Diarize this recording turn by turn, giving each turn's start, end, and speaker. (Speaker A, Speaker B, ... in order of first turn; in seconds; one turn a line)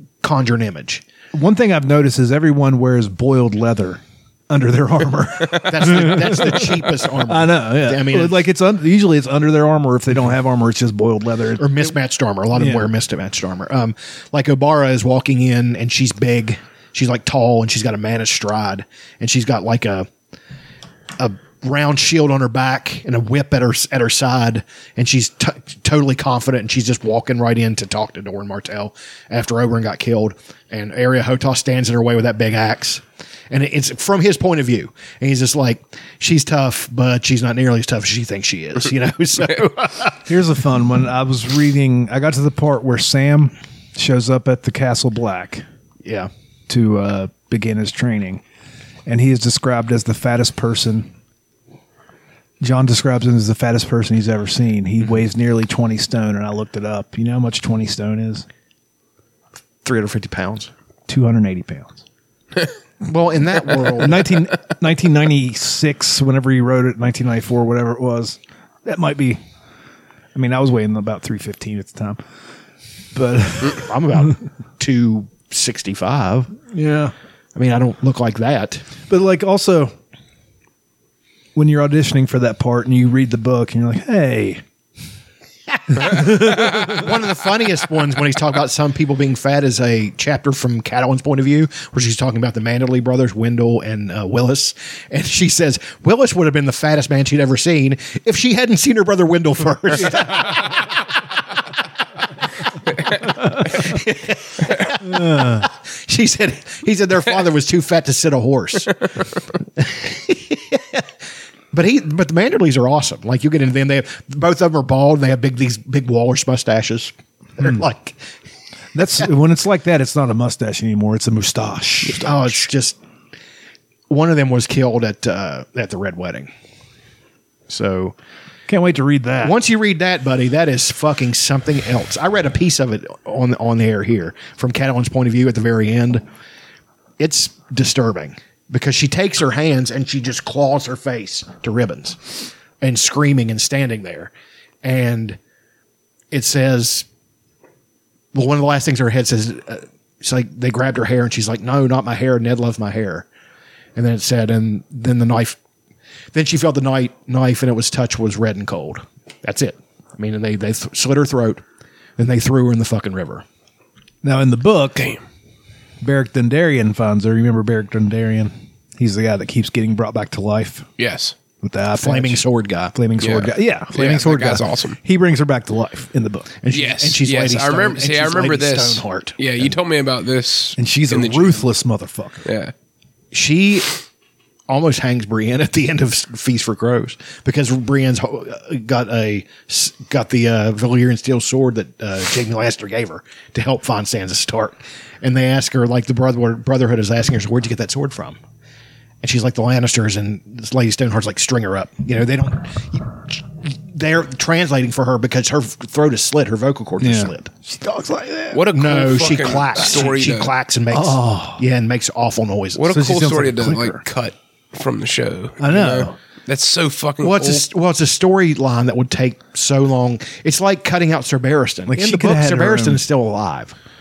Speaker A: 0.2-1.0
Speaker B: 1.3-11.9
Speaker A: 5.7-8.4
Speaker A: 11.6-20.1
Speaker B: 12.5-12.9
Speaker A: 21.2-40.2
Speaker B: 40.3-45.6
Speaker A: 46.0-46.3
Speaker B: 46.7-48.4
Speaker B: 49.1-51.1
Speaker B: 52.6-58.5
Speaker A: 59.9-60.7
Speaker B: 61.1-62.0
Speaker A: 63.0-64.3
Speaker B: 64.0-69.4
Speaker B: 70.3-72.2
Speaker B: 73.1-74.4
Speaker A: 73.7-76.5
Speaker B: 76.7-77.1
Speaker A: 77.5-78.9
Speaker B: 79.1-79.9
Speaker B: 81.5-84.6
Speaker B: 85.9-87.1
Speaker A: 86.1-100.8
Speaker A: 103.6-109.0
Speaker B: 105.0-105.7
Speaker A: 109.8-111.0
Speaker A: 111.7-118.2
Speaker B: 119.0-122.6
Speaker A: 122.1-123.0
Speaker A: 124.1-126.5
Speaker A: 127.7-128.2
Speaker B: 128.7-129.6
Speaker A: 129.4-136.2
Speaker A: 137.2-144.3
Speaker A: 144.8-145.4
Speaker A: 146.3-147.1
Speaker A: 148.3-153.3
Speaker A: 153.9-155.6
Speaker A: 156.3-161.6
Speaker A: 162.2-163.4
Speaker B: 164.2-165.2
Speaker B: 166.0-170.9
Speaker C: 171.0-171.3
Speaker B: 171.6-176.5
Speaker A: 171.9-172.9
Speaker C: 173.2-175.0
Speaker A: 176.6-179.7
Speaker C: 176.7-181.7
Speaker B: 180.8-182.5
Speaker C: 182.5-182.7
Speaker A: 183.3-184.0
Speaker A: 184.7-198.4
Speaker A: 199.2-207.5
Speaker B: 207.0-210.1
Speaker C: 208.5-210.5
Speaker A: 208.6-212.9
Speaker B: 210.9-211.6
Speaker C: 212.8-217.7
Speaker B: 212.9-214.0
Speaker B: 215.6-216.2
Speaker A: 217.2-223.8
Speaker B: 221.9-223.0